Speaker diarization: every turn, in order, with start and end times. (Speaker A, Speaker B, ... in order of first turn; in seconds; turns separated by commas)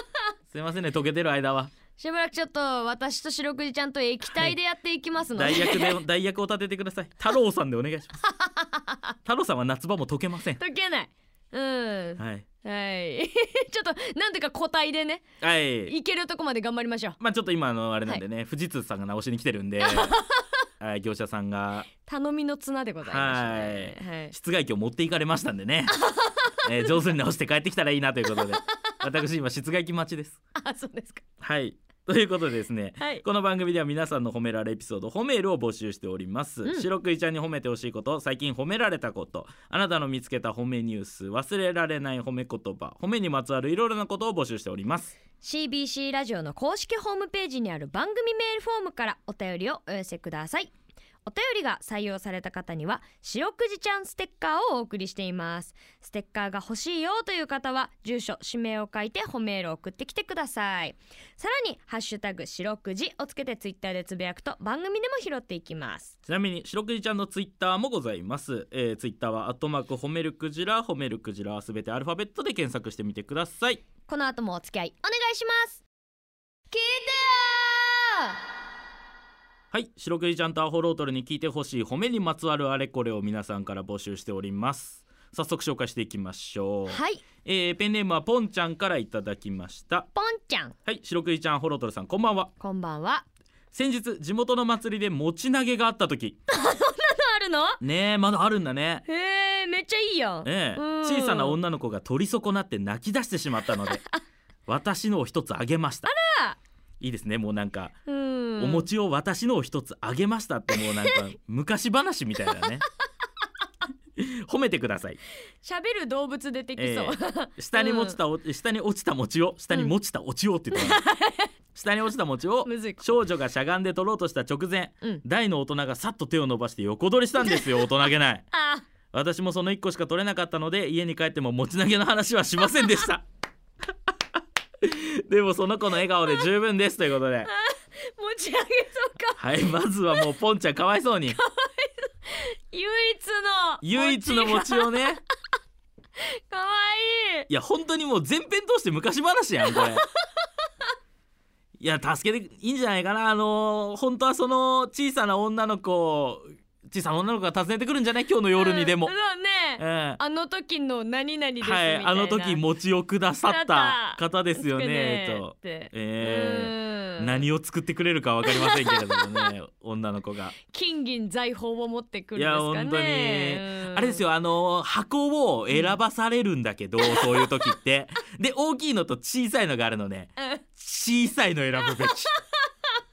Speaker A: 0.5-1.7, Speaker B: 2.0-6.0, Speaker A: 5.3-8.2, Speaker B: 8.2-9.1, Speaker A: 9.3-10.6, Speaker B: 10.6-15.2, Speaker A: 12.2-12.5, Speaker A: 15.4-15.9, Speaker B: 15.8-17.2, Speaker A: 17.2-20.1, Speaker B: 19.9-20.4, Speaker A: 20.8-21.9, Speaker B: 22.0-24.3, Speaker A: 23.0-26.0, Speaker B: 25.9-27.0, Speaker A: 26.6-30.4, Speaker B: 28.4-29.1, Speaker B: 30.6-31.2, Speaker A: 31.4-45.2, Speaker B: 33.0-33.2, Speaker B: 45.4-50.7, Speaker B: 51.3-66.2, Speaker A: 66.3-73.8, Speaker B: 74.1-75.8, Speaker B: 76.7-78.4, Speaker A: 79.7-90.1, Speaker B: 86.9-87.2, Speaker B: 90.2-90.8, Speaker A: 90.9-92.5, Speaker B: 92.6-93.2, Speaker A: 93.7-96.4, Speaker B: 96.5-97.8, Speaker A: 97.8-99.0, Speaker B: 99.1-101.6, Speaker A: 100.5-104.0, Speaker B: 103.8-104.2, Speaker A: 104.7-106.1, Speaker B: 106.1-106.6, Speaker A: 107.0-108.0, Speaker B: 108.1-108.9, Speaker A: 108.6-112.9, Speaker B: 110.8-111.1, Speaker A: 114.2-115.2, Speaker B: 115.6-118.2, Speaker A: 116.8-121.0, Speaker B: 120.7-121.5, Speaker A: 121.8-128.5, Speaker B: 122.6-123.2, Speaker B: 127.4-127.9, Speaker B: 128.5-128.9, Speaker A: 129.1-133.2, Speaker A: 134.8-137.5, Speaker B: 137.4-139.5, Speaker A: 139.4-141.4, Speaker B: 141.3-145.2, Speaker A: 143.8-145.2, Speaker B: 146.5-147.5, Speaker A: 147.5-150.1, Speaker B: 149.7-150.5, Speaker A: 151.8-159.1, Speaker B: 158.6-162.6, Speaker A: 159.8-160.2, Speaker A: 161.6-170.6, Speaker B: 163.5-167.4, Speaker B: 168.5-169.5, Speaker B: 170.7-174.2, Speaker A: 172.4-182.3, Speaker B: 175.7-176.0, Speaker B: 177.1-177.5, Speaker B: 180.4-180.7, Speaker B: 181.8-182.4